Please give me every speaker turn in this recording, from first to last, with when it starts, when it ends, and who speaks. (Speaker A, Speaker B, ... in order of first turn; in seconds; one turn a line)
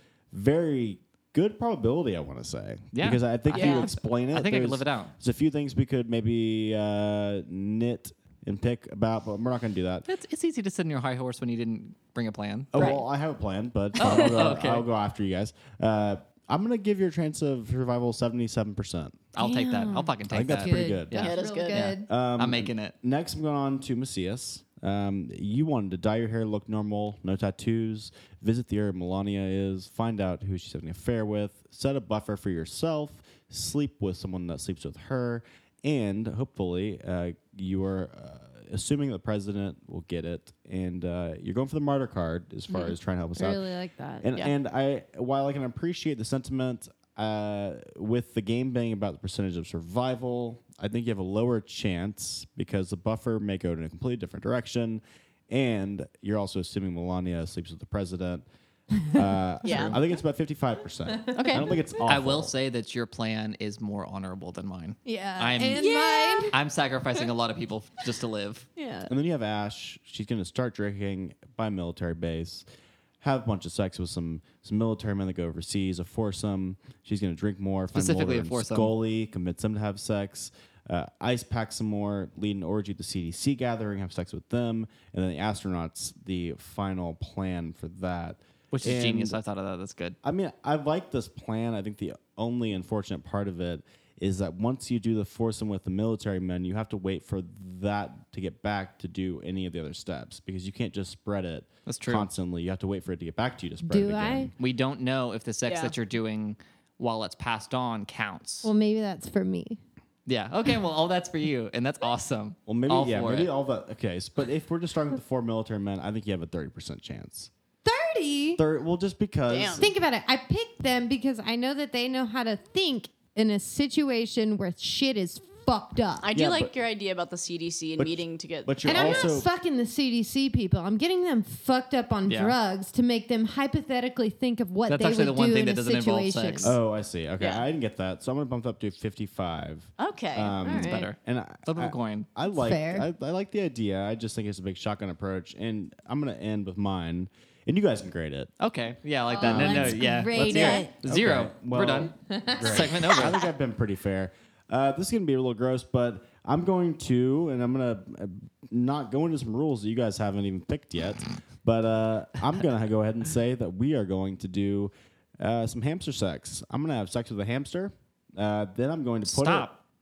Speaker A: 0.3-10.1
Speaker B: 2.9-5.1
Speaker C: 3.5-3.9
Speaker B: 10.1-13.0
Speaker A: 12.7-19.2
Speaker C: 12.8-13.0
Speaker C: 14.0-14.5
Speaker B: 14.0-14.9
Speaker B: 19.4-22.9
Speaker D: 19.4-22.1
Speaker A: 20.3-21.3
Speaker C: 21.2-21.9
Speaker A: 22.1-43.6
Speaker D: 42.7-44.3
Speaker A: 44.2-58.5
Speaker A: 59.1-62.5
Speaker C: 59.6-60.0
Speaker D: 61.1-61.9
Speaker C: 61.4-61.7
Speaker B: 62.1-65.9
Speaker D: 65.1-66.5
Speaker C: 65.8-66.5
Speaker B: 66.5-68.7
Speaker C: 68.8-69.1
Speaker A: 69.1-72.7
Speaker A: 73.2-89.4
Speaker B: 77.9-78.9
Speaker B: 88.7-90.2
Speaker A: 90.2-104.5
Speaker B: 101.9-102.3
Speaker D: 103.8-104.5
Speaker B: 104.6-108.7
Speaker C: 105.7-105.9
Speaker D: 108.6-109.8
Speaker B: 110.3-113.5
Speaker A: 112.7-117.5
Speaker D: 117.8-118.6
Speaker A: 118.6-119.9
Speaker C: 119.5-119.9
Speaker D: 119.8-126.3
Speaker C: 126.2-129.3
Speaker A: 126.3-126.7
Speaker A: 128.0-129.5
Speaker D: 128.8-136.7
Speaker B: 132.3-132.6
Speaker B: 134.9-136.8
Speaker A: 136.6-148.5
Speaker C: 137.4-137.7
Speaker C: 140.0-140.6
Speaker D: 140.6-141.1
Speaker B: 140.8-142.3
Speaker D: 142.5-143.1
Speaker B: 148.6-153.4
Speaker D: 149.4-150.9
Speaker A: 149.4-169.7
Speaker D: 152.3-152.8
Speaker B: 169.3-169.8